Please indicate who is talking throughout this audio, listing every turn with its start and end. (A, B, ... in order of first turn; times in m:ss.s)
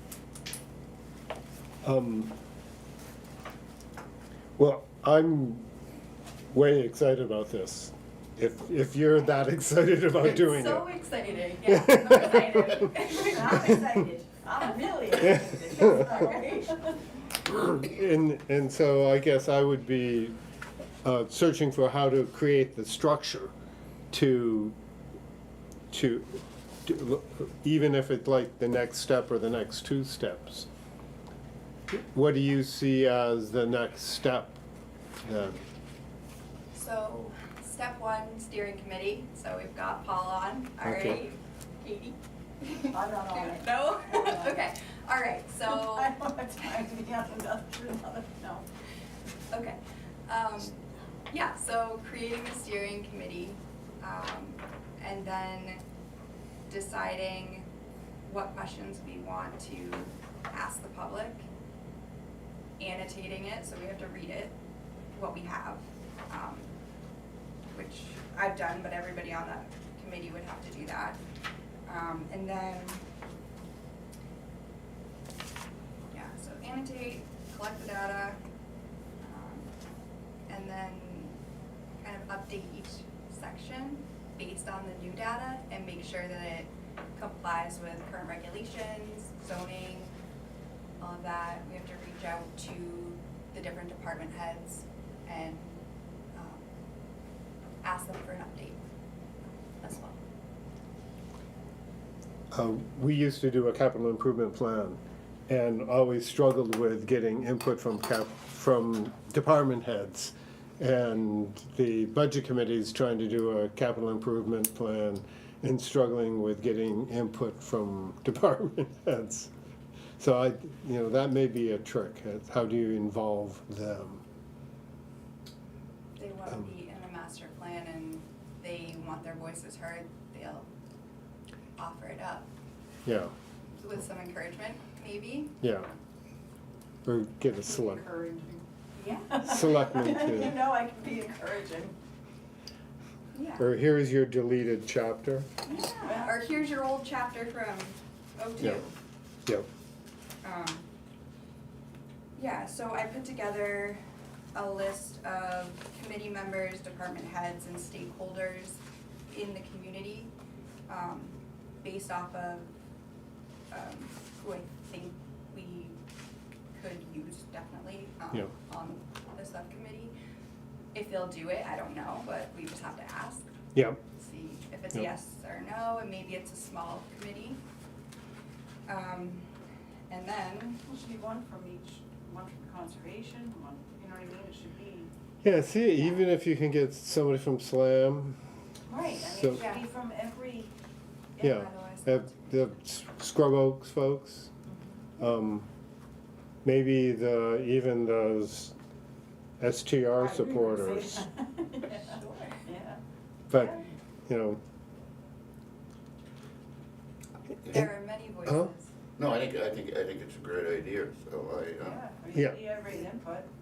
0:01.8-0:02.3 A
0:04.6-0:05.6 A
0:06.5-0:10.8 A
0:10.2-0:13.8 B
0:11.6-0:12.8 A
0:13.1-0:17.0 C
0:17.5-0:20.3 A
0:21.0-0:23.5 A
0:24.1-0:24.8 A
0:25.9-0:30.7 A
0:31.9-0:34.6 A
0:35.2-0:35.6 A
0:36.7-0:46.2 B
0:40.8-0:41.2 A
0:42.9-0:44.6 C
0:45.6-0:48.7 C
0:49.5-0:55.8 B
0:56.7-0:57.7 B
0:58.2-1:01.4 B
1:02.8-1:04.6 B
1:05.1-1:06.7 B
1:07.7-1:11.2 B
1:11.9-1:13.0 B
1:16.1-1:18.4 B
1:19.2-1:19.7 B
1:20.5-1:21.4 B
1:22.0-1:30.1 B
1:31.0-1:35.8 B
1:36.3-1:36.6 B
1:37.8-1:38.8 B
1:39.8-1:40.2 B
1:42.5-1:59.5 A
2:00.2-2:04.2 A
2:06.2-2:10.7 B
2:11.8-2:12.5 B
2:13.0-2:13.3 A
2:13.8-2:15.6 B
2:15.6-2:15.9 A
2:17.0-2:18.0 A
2:17.8-2:22.0 C
2:19.4-2:20.6 A
2:23.3-2:23.7 B
2:23.6-2:25.5 A
2:25.6-2:26.4 C
2:26.0-2:28.9 B
2:30.4-2:30.8 B
2:32.4-2:34.0 B
2:34.5-2:40.3 B
2:40.9-2:42.7 B
2:43.7-2:46.0 B
2:46.7-2:50.1 B
2:50.9-2:53.4 B
2:53.7-2:54.0 A
2:54.2-2:57.6 B
2:58.9-2:59.5 B
3:00.1-3:00.8 B
3:00.8-3:05.1 C
3:05.4-3:08.4 A
3:08.9-3:10.7 C
3:09.2-3:09.6 A
3:09.6-3:09.8 B
3:11.4-3:12.3 B
3:11.4-3:14.5 A
3:14.7-3:15.0 C
3:15.2-3:15.7 A
3:16.6-3:18.7 A
3:19.6-3:21.2 A
3:20.2-3:23.0 C
3:21.9-3:22.5 B
3:23.5-3:24.6 A
3:23.5-3:23.8 C
3:27.7-3:28.9 B
3:29.2-3:32.0 D
3:31.8-3:33.5 C